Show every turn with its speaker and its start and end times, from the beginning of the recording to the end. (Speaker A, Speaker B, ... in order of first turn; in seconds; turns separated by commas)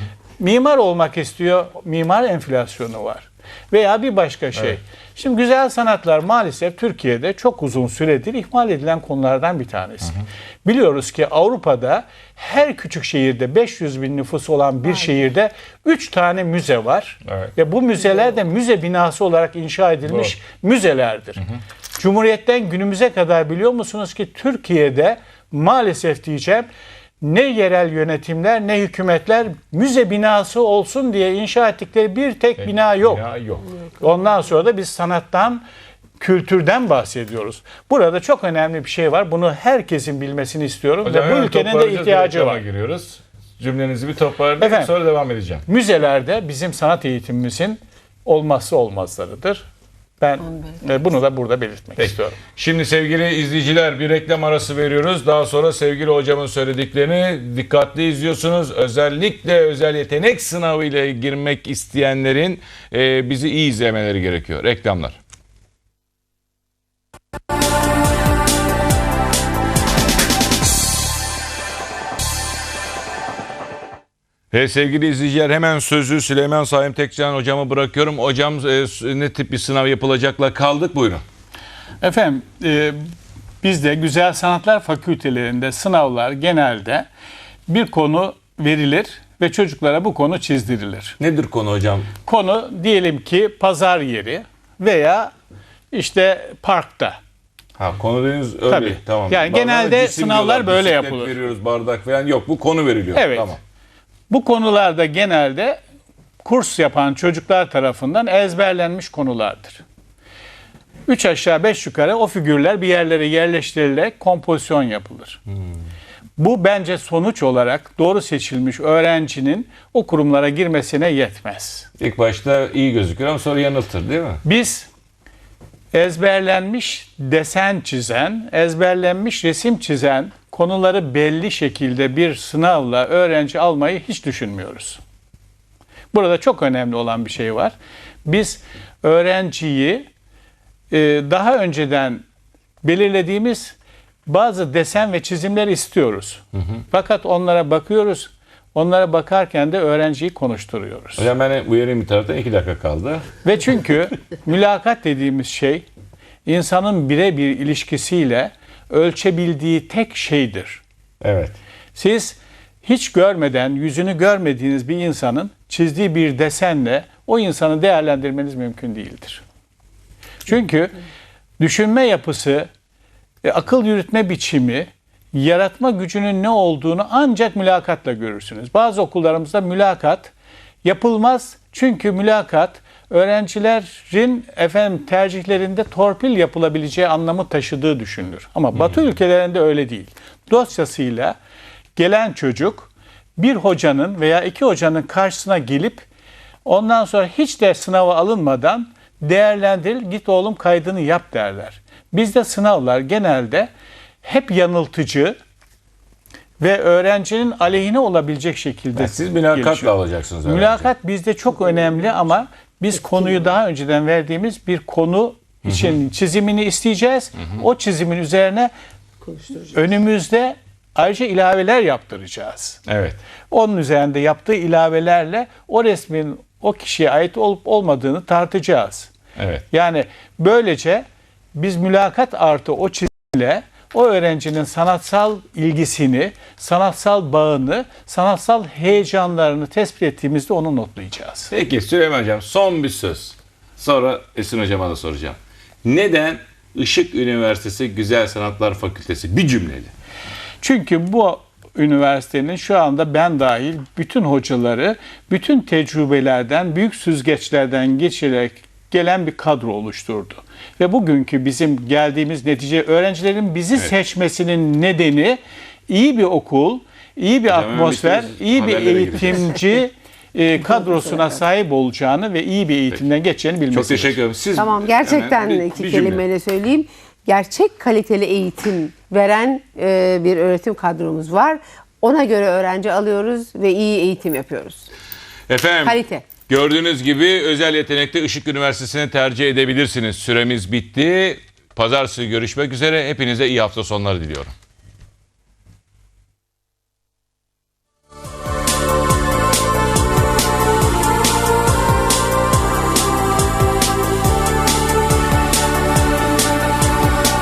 Speaker A: 0.4-21.4, Speaker B: 17.2-17.5, Speaker B: 20.1-20.3, Speaker A: 22.0-26.7, Speaker A: 27.2-33.2, Speaker B: 32.6-33.7, Speaker A: 34.0-35.6, Speaker A: 36.2-42.6, Speaker B: 41.0-45.6, Speaker A: 44.6-44.9, Speaker A: 45.6-49.6, Speaker A: 50.2-52.4, Speaker B: 52.0-65.2, Speaker B: 74.5-81.2, Speaker A: 82.0-83.0, Speaker A: 83.6-87.1, Speaker A: 87.7-91.2, Speaker B: 91.2-92.1, Speaker A: 92.2-95.3, Speaker A: 95.9-97.2, Speaker B: 97.8-103.6, Speaker A: 98.7-101.4, Speaker A: 103.1-103.5, Speaker A: 104.3-105.8, Speaker A: 106.4-109.8, Speaker A: 111.1-115.4, Speaker A: 116.4-121.9, Speaker B: 122.0-124.4, Speaker A: 124.4-124.9, Speaker A: 125.9-135.0, Speaker A: 136.1-137.8, Speaker A: 138.2-140.1, Speaker A: 140.9-142.2, Speaker A: 142.8-151.3, Speaker B: 151.2-153.3, Speaker A: 153.4-155.8, Speaker A: 156.5-160.8, Speaker B: 161.2-161.6, Speaker A: 161.9-169.4, Speaker A: 170.5-170.9, Speaker A: 171.6-172.7, Speaker A: 173.4-180.3, Speaker A: 180.8-191.3, Speaker A: 192.0-196.1, Speaker A: 196.6-203.7, Speaker A: 204.2-205.4, Speaker A: 206.6-218.7, Speaker B: 209.0-210.9, Speaker B: 215.7-215.9, Speaker A: 219.5-222.8, Speaker B: 222.8-223.2, Speaker A: 223.5-229.1, Speaker B: 229.3-229.6, Speaker A: 229.7-241.5, Speaker B: 241.5-249.9, Speaker A: 250.6-274.2, Speaker B: 267.5-269.6, Speaker B: 273.7-276.2, Speaker C: 274.6-284.9, Speaker B: 285.5-294.5, Speaker C: 285.8-286.3